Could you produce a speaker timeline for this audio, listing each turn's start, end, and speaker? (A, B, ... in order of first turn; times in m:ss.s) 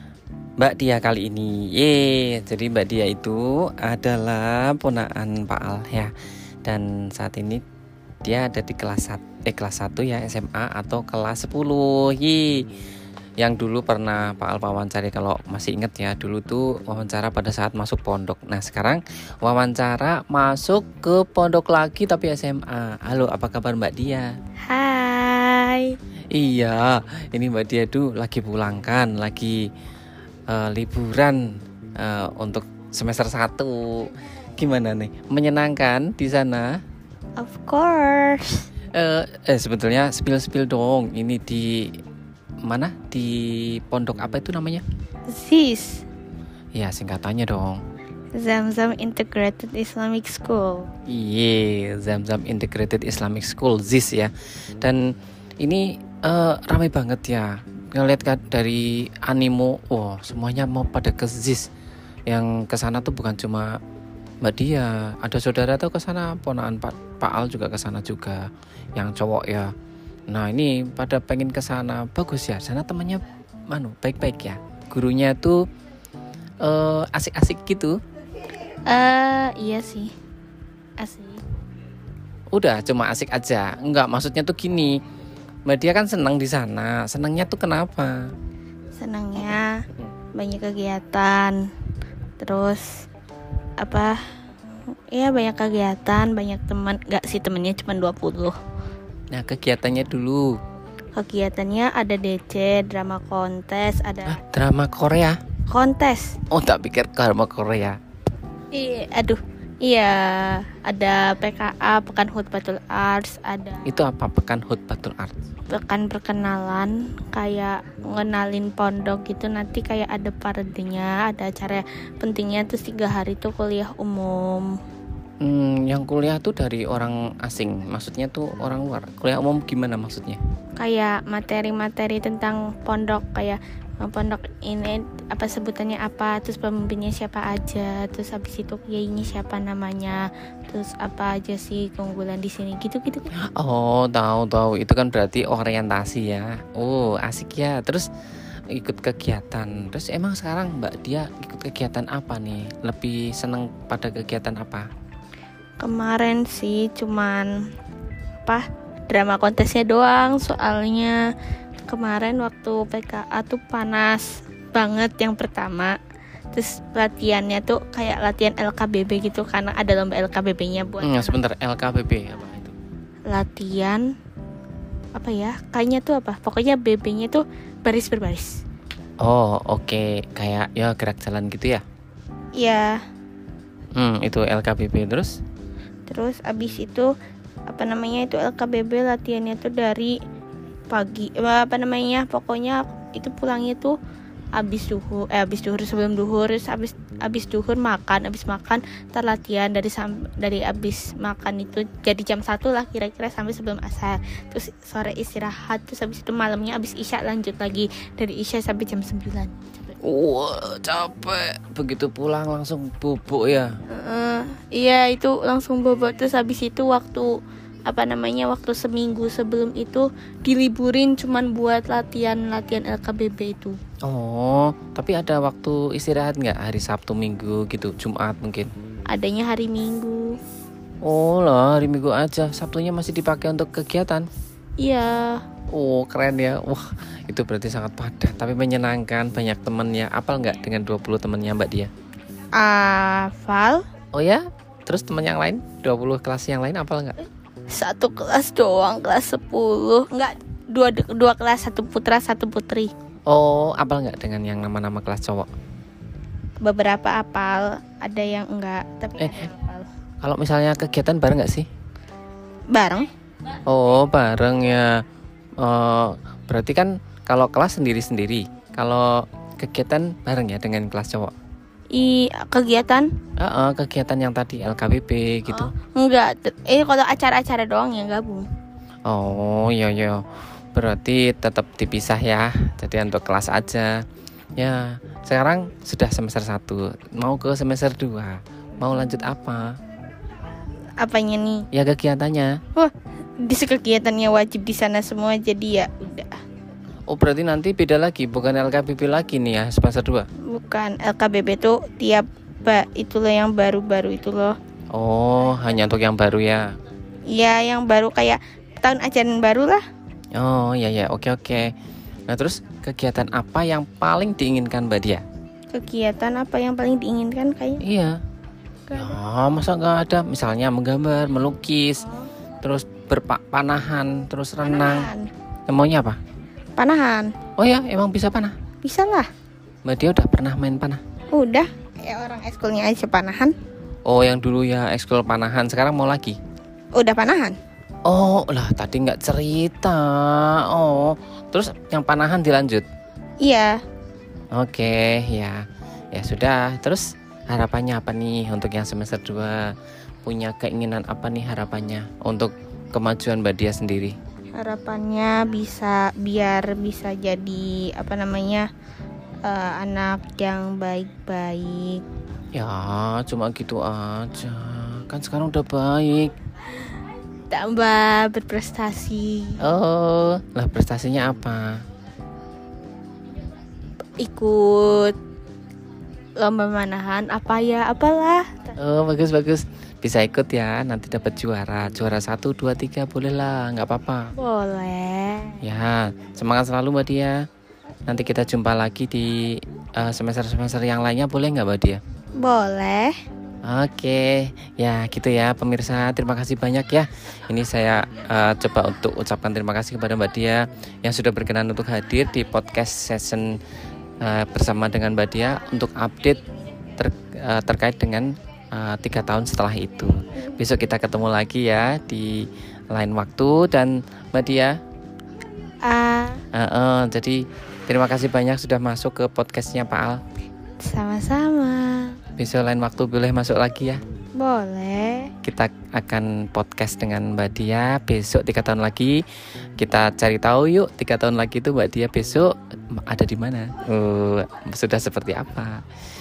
0:00.6-0:06.1 A
0:06.6-0:07.6 A
0:08.2-0:12.7 A
0:13.4-0:24.3 A
0:24.6-0:26.0 B
0:26.3-0:29.7 A
0:30.5-0:36.8 A
0:37.4-0:38.6 B
0:38.9-0:42.0 A
0:42.6-0:44.8 A
0:45.3-0:46.0 B
0:46.7-0:47.8 A
0:48.3-0:50.9 B
0:51.1-1:01.7 A
1:02.3-1:03.8 A
1:04.4-1:09.7 A
1:10.3-1:15.6 A
1:16.6-1:18.0 A
1:18.9-1:20.1 B
1:21.0-1:21.4 B
1:22.5-1:25.0 A
1:25.6-1:28.3 A
1:29.0-1:29.8 B
1:30.3-1:31.6 B
1:32.4-1:33.0 B
1:33.8-1:34.2 B
1:35.1-1:38.6 B
1:39.3-1:40.6 A
1:41.1-1:44.4 B
1:44.3-1:45.4 A
1:45.7-1:46.4 B
1:46.5-1:48.0 A
1:48.7-1:53.9 B
1:53.8-1:55.4 A
1:55.7-2:04.8 B
2:05.4-2:10.4 A
2:10.8-2:23.3 B
2:23.6-2:28.1 A
2:28.7-2:34.9 A
2:35.8-2:37.6 B
2:38.4-2:41.3 B
2:41.9-2:46.0 B
2:46.5-2:51.4 B
2:51.0-2:52.7 A
2:53.3-2:54.1 B
2:55.1-2:58.6 B
2:59.2-3:01.8 A
3:02.6-3:03.0 B
3:04.0-3:05.4 A
3:06.1-3:07.1 B
3:07.7-3:10.2 B
3:10.9-3:13.9 B
3:14.5-3:29.9 B
3:30.0-3:33.7 A
3:33.9-3:43.8 B
3:44.0-3:48.7 A
3:49.1-3:50.4 B
3:51.0-3:54.3 A
3:54.8-3:55.4 B
3:55.7-4:01.9 A
4:02.6-4:03.8 B
4:04.1-4:07.1 A
4:07.7-4:12.9 B
4:13.3-4:15.5 A
4:16.6-4:19.9 B
4:20.2-4:21.7 A
4:22.7-4:23.1 B
4:23.7-4:25.0 A
4:25.6-4:31.3 A
4:31.9-4:33.1 B
4:33.4-4:35.7 A
4:35.5-4:38.4 B
4:39.1-4:40.2 A
4:40.7-4:44.0 A
4:44.6-4:49.7 A
4:51.0-4:51.7 B
4:51.7-4:52.6 A
4:52.7-4:56.4 B
4:57.1-5:00.3 A
5:00.5-5:04.5 B
5:04.9-5:06.7 A
5:07.3-5:09.8 B
5:10.3-5:11.7 A
5:12.3-5:15.2 A
5:15.7-5:17.8 B
5:17.8-5:18.2 A
5:18.9-5:19.2 B
5:18.9-5:22.0 A
5:22.0-5:22.3 B
5:22.6-5:25.1 A
5:24.6-5:25.3 B
5:25.7-5:26.2 A
5:26.8-5:27.3 B
5:27.6-5:28.6 A
5:28.8-5:29.3 B
5:29.8-5:31.0 A
5:31.3-5:33.5 B
5:34.0-5:36.4 A
5:36.9-5:37.6 B
5:38.0-5:42.9 A
5:43.4-5:43.8 B
5:44.5-5:49.7 A
5:50.2-5:54.1 A
5:54.6-5:58.6 B
5:59.4-6:02.0 B
6:02.5-6:06.3 A
6:07.5-6:09.7 B
6:09.6-6:11.8 A
6:14.2-6:15.2 B
6:16.4-6:18.7 B
6:18.8-6:24.3 A
6:24.3-6:25.6 B
6:25.6-6:27.4 A
6:28.1-6:32.0 A
6:32.4-6:33.1 B
6:33.6-6:43.6 A
6:44.2-6:46.4 A
6:47.0-6:54.8 A
6:55.8-6:56.4 B
6:56.5-7:00.2 A
7:00.8-7:02.2 B
7:02.4-7:04.0 A
7:04.4-7:05.3 B
7:05.4-7:09.2 A
7:09.8-7:15.8 A